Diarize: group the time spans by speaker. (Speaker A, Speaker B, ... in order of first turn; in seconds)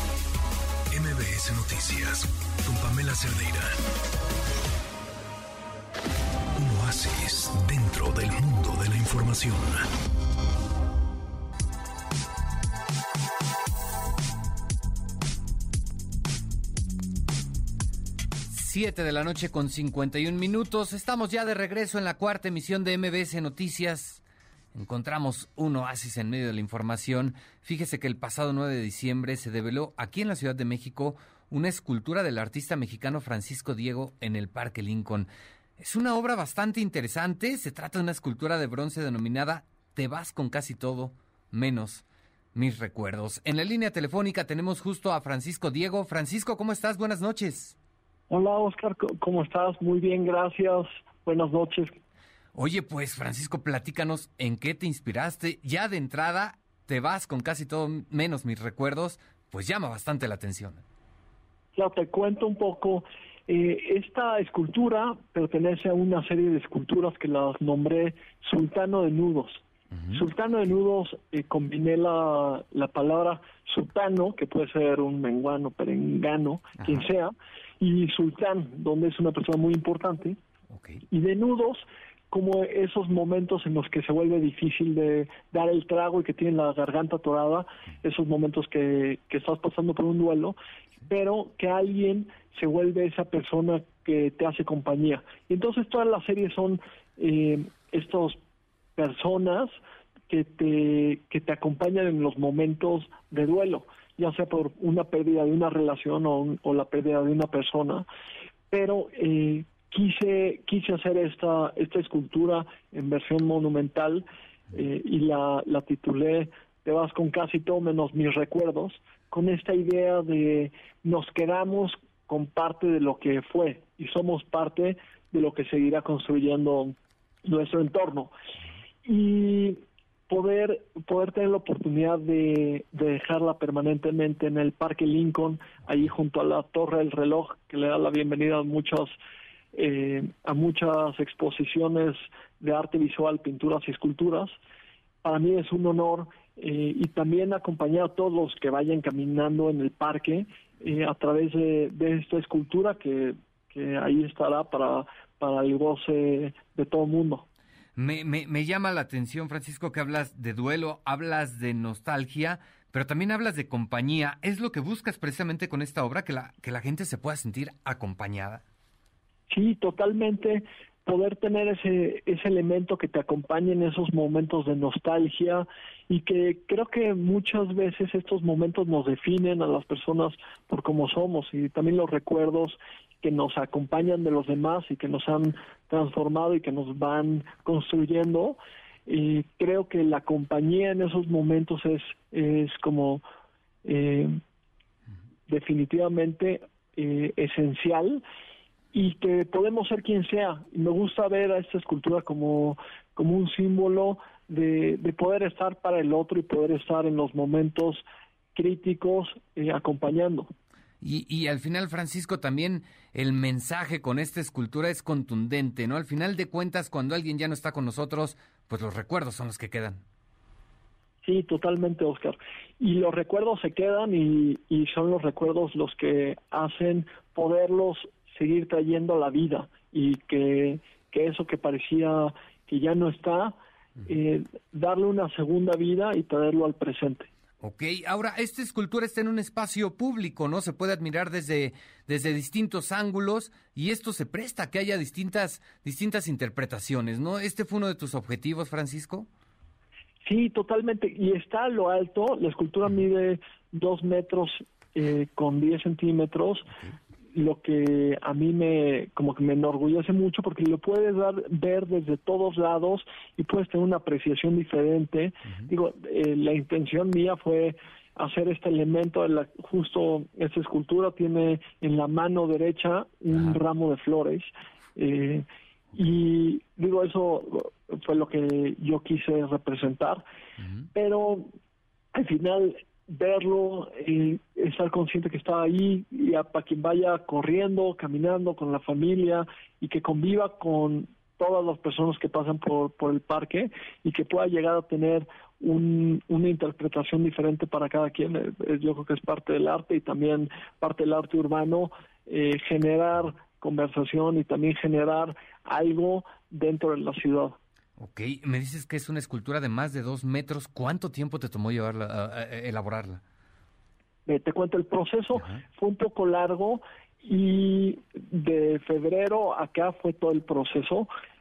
Speaker A: 0.9-3.8, 6.6-9.9
Speaker B: 18.5-24.2, 24.7-47.8, 52.5-60.8, 69.9-70.2, 76.8-77.0, 80.7-81.0, 158.0-168.6, 211.0-220.0, 237.6-249.3, 273.3-273.6, 308.0-313.2
Speaker C: 48.3-51.9, 61.7-80.4, 81.1-90.6, 91.1-98.4, 99.0-99.8, 100.3-108.1, 108.7-128.3, 129.0-139.2, 139.7-144.6, 145.2-157.5, 169.5-193.2, 193.8-194.4, 195.5-198.2, 198.9-210.5, 221.2-237.3, 250.2-256.7, 257.3-280.2, 280.9-281.5, 282.1-307.6, 314.3-321.1